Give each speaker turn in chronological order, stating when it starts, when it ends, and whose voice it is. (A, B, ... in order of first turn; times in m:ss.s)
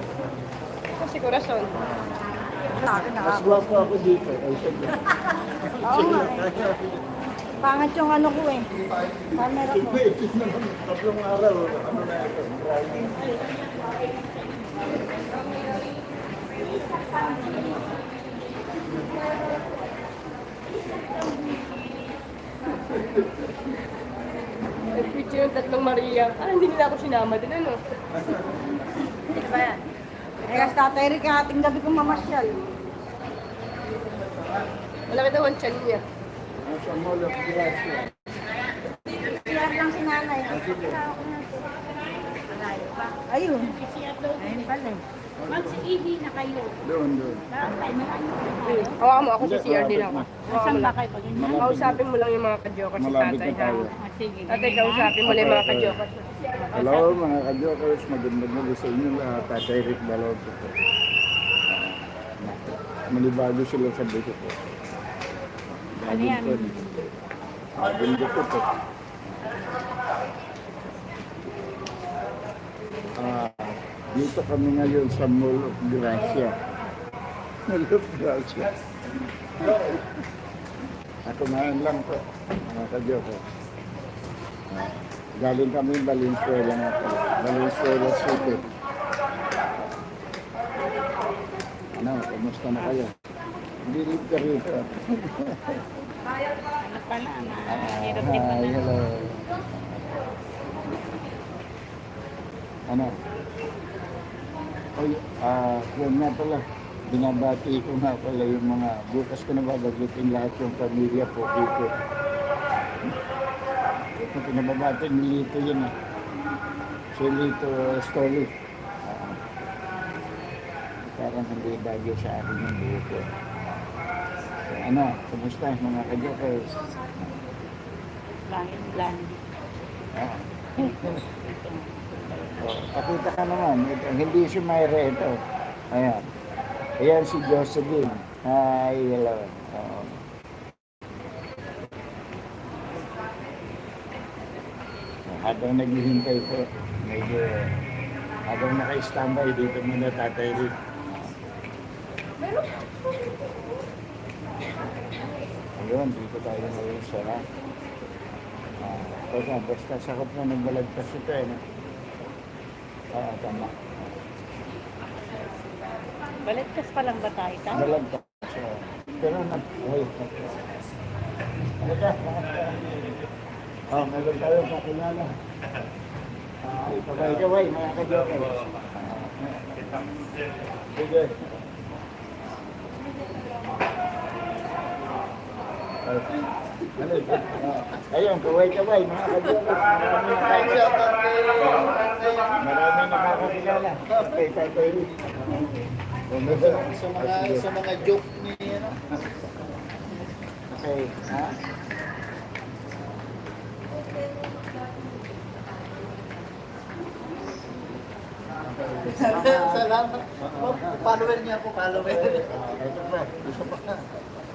0:01.0-0:01.7 A
0:02.7-0:03.6 B
0:03.2-0:05.0 C
0:05.6-0:07.0 C
0:05.8-0:06.5 B
0:07.6-0:08.7 B
0:09.3-0:10.0 B
0:09.6-0:13.3 C
0:14.2-0:15.8 D
0:16.6-0:17.8 D
0:21.2-0:21.6 D
0:24.9-0:27.8 A
0:29.3-0:29.8 B
0:30.4-0:30.8 A
0:30.4-0:32.6 B
0:35.1-0:36.0 A
0:36.6-0:38.1 C
0:39.3-0:41.6 B
0:40.5-0:41.0 C
0:42.3-0:46.8 D
0:43.1-0:43.8 B
0:45.4-0:45.9 C
0:46.8-0:47.5 C
0:47.4-0:49.0 D
0:48.6-0:51.0 A
0:49.4-0:50.3 C
0:50.4-0:51.7 D
0:51.3-0:52.0 C
0:51.6-0:53.8 A
0:53.0-0:53.9 C
0:53.8-0:55.4 D
0:54.5-0:57.1 A
0:55.2-0:56.0 C
0:56.7-1:00.7 C
1:01.7-1:04.6 C
1:05.9-1:06.9 C
1:06.0-1:07.1 D
1:07.8-1:08.7 C
1:13.2-1:16.6 C
1:17.7-1:18.7 C
1:19.6-1:20.0 C
1:21.2-1:23.4 C
1:24.7-1:28.7 C
1:32.0-1:33.1 C
1:33.8-1:35.8 C
1:36.8-1:38.8 D
1:37.7-1:40.2 C
1:42.9-1:43.1 C
1:45.0-1:51.9 C
1:54.2-1:55.9 C
1:57.1-1:58.5 C
1:59.0-1:59.4 C
2:00.0-2:00.4 D
2:01.1-2:03.2 C
2:04.7-2:06.8 C
2:08.5-2:09.4 D
2:10.1-2:11.2 C
2:10.8-2:12.7 D
2:12.6-2:15.3 C
2:15.9-2:16.2 C
2:17.0-2:20.2 C
2:25.3-2:27.7 C
2:28.5-2:31.3 C
2:32.6-2:32.9 A
2:35.8-2:37.4 C
2:38.8-2:41.6 C
2:43.1-2:43.9 C
2:46.4-2:47.9 D
2:47.7-2:50.6 C
2:51.8-2:53.0 C
2:53.9-2:55.4 C
2:56.6-3:00.1 C
3:00.9-3:01.4 C
3:06.0-3:06.4 C
3:07.0-3:11.0 C
3:10.4-3:12.6 E
3:12.6-3:15.1 C
3:16.3-3:17.8 C
3:16.5-3:18.9 E
3:20.7-3:21.6 C
3:28.6-3:29.9 C
3:29.2-3:32.4 E
3:30.4-3:31.0 C
3:32.0-3:33.9 C